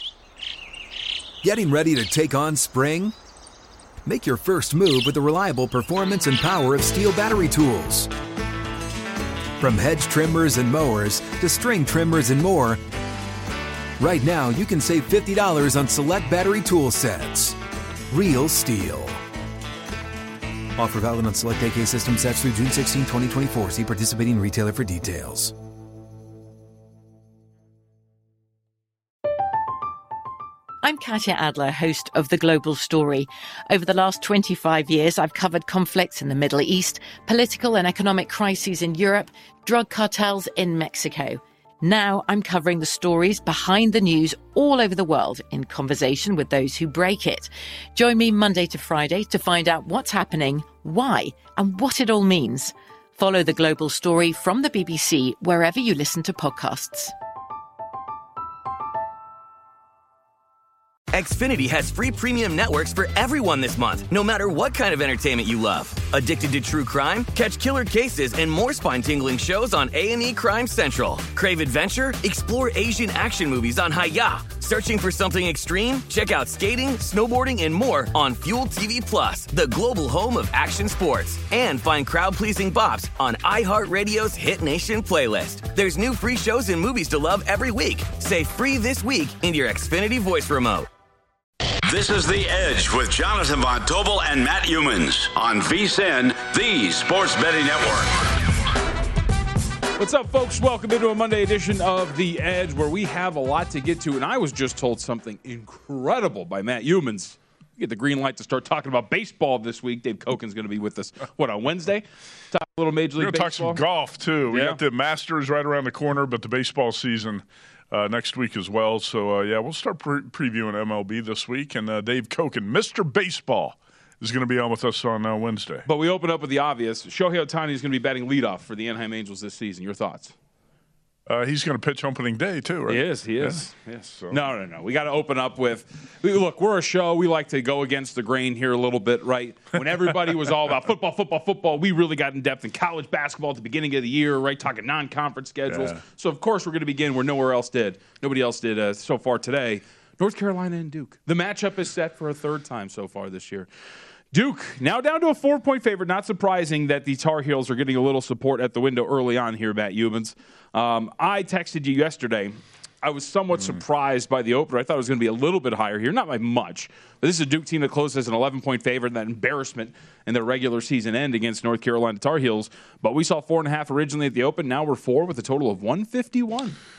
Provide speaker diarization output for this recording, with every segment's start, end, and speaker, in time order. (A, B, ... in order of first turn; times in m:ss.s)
0:01.4-0:03.1 A
0:04.0-0:08.1 A
0:09.6-0:12.8 A
0:14.0-0:17.6 A
0:18.1-0:19.2 A
0:20.8-0:25.5 A
0:30.8-0:57.1 B
1:01.1-1:30.9 C
1:31.8-1:38.4 D
1:40.0-1:53.8 E
1:53.2-2:05.9 F
1:54.5-1:54.8 E
2:05.8-2:10.3 E
2:11.3-2:13.6 F
2:12.9-2:33.7 E
2:14.1-2:14.4 F
2:25.7-2:26.0 F
2:34.3-2:56.8 E